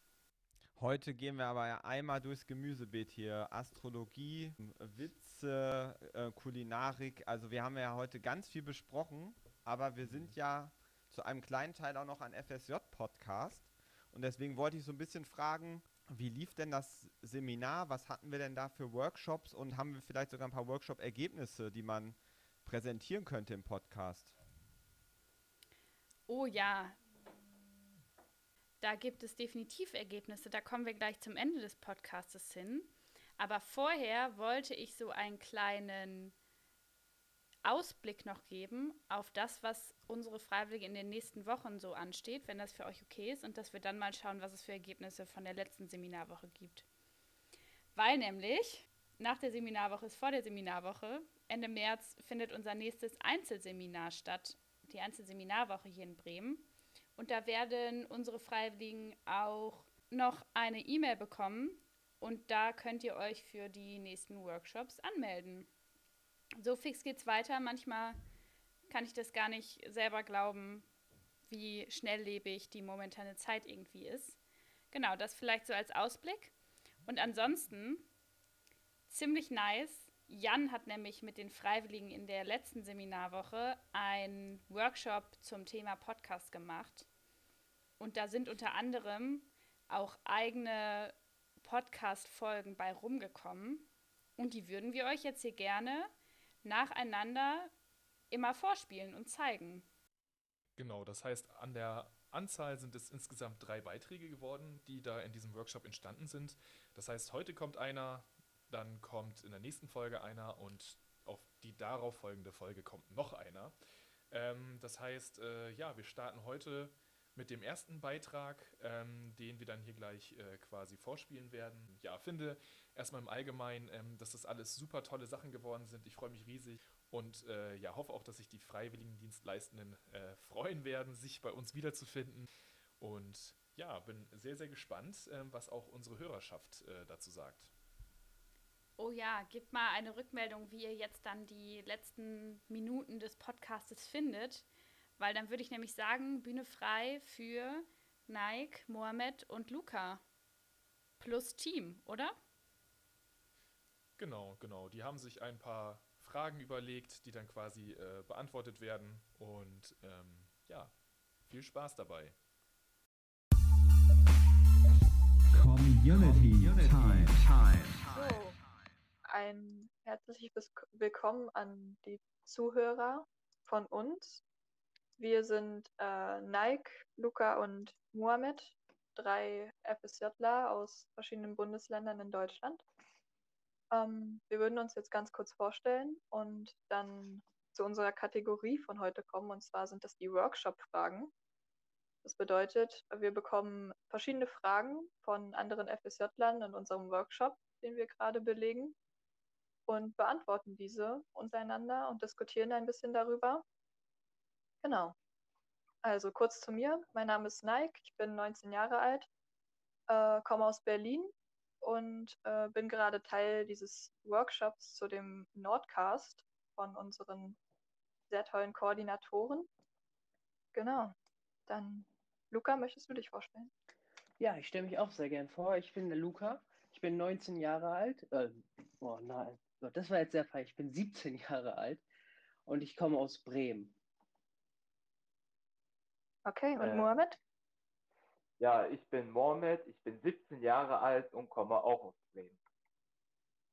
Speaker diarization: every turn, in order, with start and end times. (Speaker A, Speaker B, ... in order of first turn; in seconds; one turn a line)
Speaker A: 0.8-24.4
Speaker B: 10.0-10.3
Speaker C: 26.3-27.0
Speaker C: 28.8-36.3
Speaker C: 37.6-46.9
Speaker C: 47.9-65.7
Speaker C: 66.6-68.2
Speaker C: 68.9-70.9
Speaker C: 71.5-74.4
Speaker C: 74.9-78.1
Speaker C: 79.1-87.1
Speaker C: 88.0-96.1
Speaker C: 96.6-97.7
Speaker C: 98.3-99.8
Speaker B: 100.8-113.7
Speaker B: 114.3-132.5
Speaker B: 133.0-137.7
Speaker C: 139.0-144.7
Speaker C: 145.2-150.2
Speaker C: 151.2-152.3
Speaker B: 154.2-160.9
Speaker B: 161.4-162.3
Speaker A: 165.5-168.0
Speaker D: 168.1-168.6
Speaker D: 169.2-174.4
Speaker D: 175.2-182.8
Speaker D: 183.9-191.3
Speaker D: 192.2-198.9
Speaker D: 199.9-203.6
Speaker D: 204.8-205.1
Speaker D: 206.0-209.3
Speaker D: 210.1-217.6
Speaker D: 218.3-219.7
Speaker D: 220.7-221.1
Speaker D: 221.7-223.7
Speaker E: 224.4-232.0
Speaker E: 232.7-233.9
Speaker D: 236.4-237.4
Speaker F: 236.8-237.1
Speaker F: 238.6-242.6